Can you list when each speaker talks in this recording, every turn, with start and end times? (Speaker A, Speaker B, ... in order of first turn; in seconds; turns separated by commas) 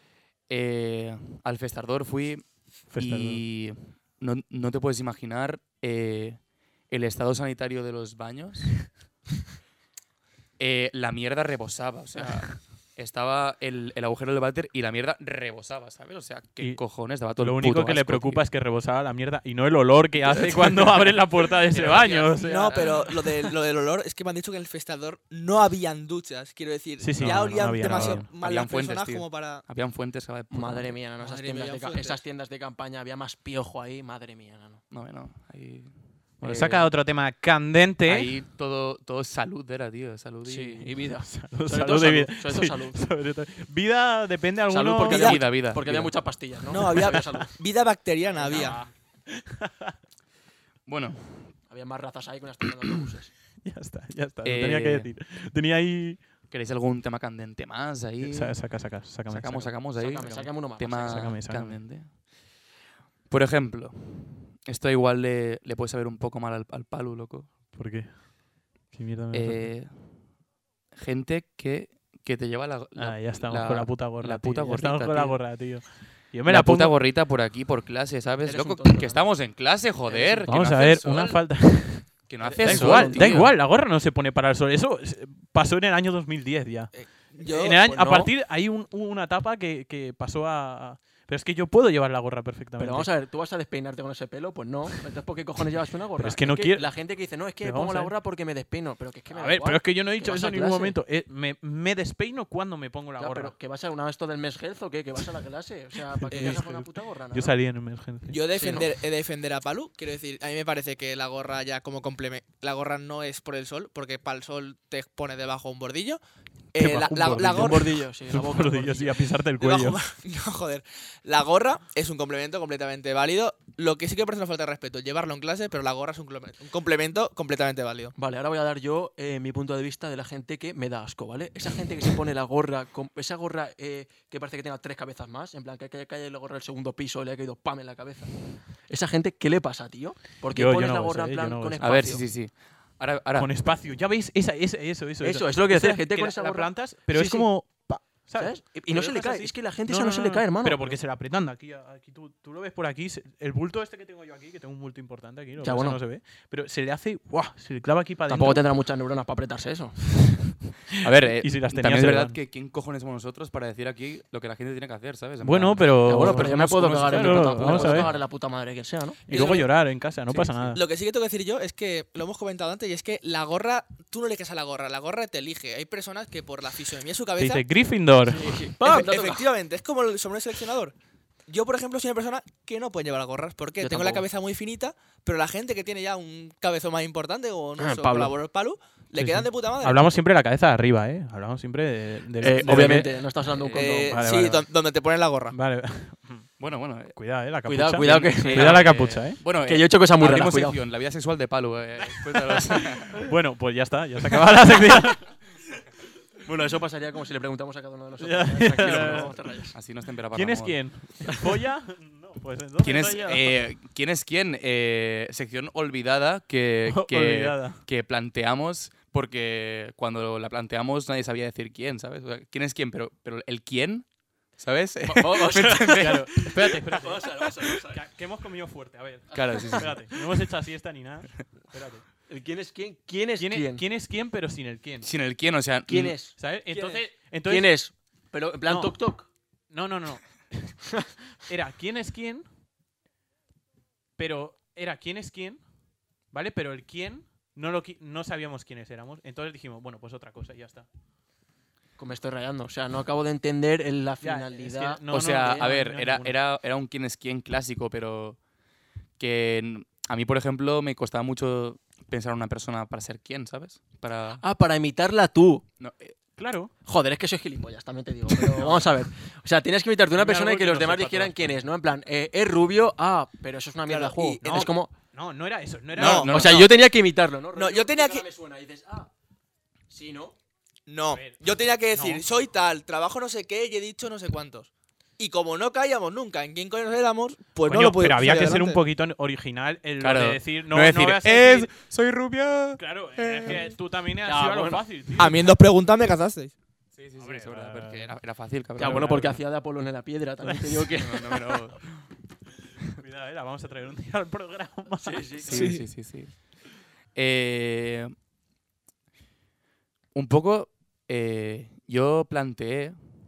Speaker A: 0.5-8.9, Speaker B: 2.9-3.4, Speaker A: 10.6-18.4, Speaker B: 17.4-23.3, Speaker A: 20.2-22.3, Speaker C: 21.7-22.9, Speaker D: 22.5-29.6, Speaker B: 27.0-28.4, Speaker A: 27.2-31.0, Speaker C: 30.5-34.8, Speaker D: 31.2-32.2, Speaker A: 34.9-36.9, Speaker B: 36.4-38.3, Speaker A: 38.0-41.0, Speaker C: 40.5-43.0, Speaker B: 41.2-45.4, Speaker C: 44.7-47.5, Speaker A: 45.1-46.1, Speaker D: 46.7-48.8, Speaker B: 47.1-47.4, Speaker C: 48.4-48.9, Speaker B: 48.5-49.9, Speaker A: 50.9-51.6, Speaker C: 51.7-53.3, Speaker B: 53.6-56.2, Speaker A: 54.4-55.1, Speaker A: 56.5-62.1, Speaker B: 58.2-59.8, Speaker C: 60.0-61.3, Speaker B: 61.0-61.8, Speaker A: 63.3-67.5, Speaker B: 67.7-68.3, Speaker B: 68.9-69.7, Speaker A: 69.3-70.3, Speaker A: 71.0-75.9, Speaker B: 73.0-77.0, Speaker A: 76.5-83.5, Speaker C: 78.5-79.3, Speaker C: 80.1-80.7, Speaker B: 80.5-86.9, Speaker C: 82.4-83.5, Speaker D: 86.9-87.9, Speaker B: 87.4-93.1, Speaker C: 87.9-88.3, Speaker C: 92.8-101.0, Speaker B: 96.2-96.9, Speaker B: 97.6-98.1, Speaker B: 99.3-103.5, Speaker C: 103.2-107.6, Speaker B: 106.3-108.8, Speaker D: 108.3-116.2, Speaker C: 108.5-108.9, Speaker D: 116.7-117.8, Speaker B: 116.8-120.0, Speaker C: 117.5-119.3, Speaker D: 119.6-128.1, Speaker C: 128.2-142.2, Speaker B: 140.5-141.8, Speaker A: 141.8-143.5, Speaker B: 143.4-158.6, Speaker C: 145.2-151.0, Speaker C: 155.6-156.0, Speaker C: 158.3-160.0, Speaker B: 160.9-162.4, Speaker A: 161.0-168.2, Speaker B: 165.4-168.1, Speaker C: 166.1-169.7, Speaker B: 169.3-170.8, Speaker D: 169.3-169.6, Speaker C: 170.3-170.7, Speaker D: 170.7-177.7, Speaker B: 177.4-178.6, Speaker C: 178.2-179.5, Speaker D: 178.8-180.9, Speaker D: 181.5-190.1, Speaker C: 183.8-184.2, Speaker C: 187.8-188.3, Speaker B: 189.2-194.7, Speaker C: 192.4-194.2, Speaker D: 193.8-195.6, Speaker B: 195.5-196.5, Speaker A: 196.6-197.2, Speaker B: 197.2-199.4, Speaker C: 197.7-198.8, Speaker A: 198.0-203.2, Speaker C: 199.7-200.8, Speaker B: 202.0-205.4, Speaker C: 206.5-209.7, Speaker B: 208.2-209.4, Speaker A: 208.8-211.3, Speaker B: 210.3-213.5, Speaker A: 212.8-224.1, Speaker B: 216.9-217.8, Speaker A: 224.6-226.8, Speaker C: 225.0-228.0, Speaker B: 225.8-232.1, Speaker A: 229.3-230.2, Speaker C: 232.3-233.8, Speaker B: 233.4-235.1, Speaker A: 235.0-236.2, Speaker C: 235.9-239.3, Speaker B: 236.3-237.7, Speaker B: 238.7-239.0, Speaker B: 239.7-240.7, Speaker B: 241.5-242.5, Speaker B: 244.2-245.6, Speaker B: 246.3-250.9, Speaker C: 252.0-255.6, Speaker B: 254.2-256.4, Speaker A: 255.1-258.4, Speaker A: 259.2-264.4, Speaker C: 264.4-265.6, Speaker A: 265.8-266.1, Speaker B: 266.4-266.7, Speaker C: 266.9-274.9, Speaker B: 268.5-268.9, Speaker B: 270.2-271.6, Speaker D: 273.9-274.4, Speaker B: 274.4-276.7, Speaker D: 275.9-276.3, Speaker A: 276.0-276.7, Speaker C: 276.3-279.1, Speaker D: 277.6-278.3, Speaker C: 279.9-280.4, Speaker D: 280.9-288.8, Speaker B: 281.1-282.2, Speaker B: 287.6-291.7, Speaker A: 290.0-293.7, Speaker B: 292.8-295.5, Speaker C: 294.2-294.9, Speaker D: 295.2-296.5, Speaker A: 296.9-299.2, Speaker B: 297.2-298.1, Speaker B: 298.8-299.4, Speaker C: 298.8-301.4, Speaker B: 300.5-300.9, Speaker A: 301.0-302.0, Speaker B: 302.9-305.7, Speaker C: 305.0-305.8, Speaker A: 305.5-306.6, Speaker D: 305.5-305.9, Speaker A: 307.1-308.1, Speaker A: 310.1-313.0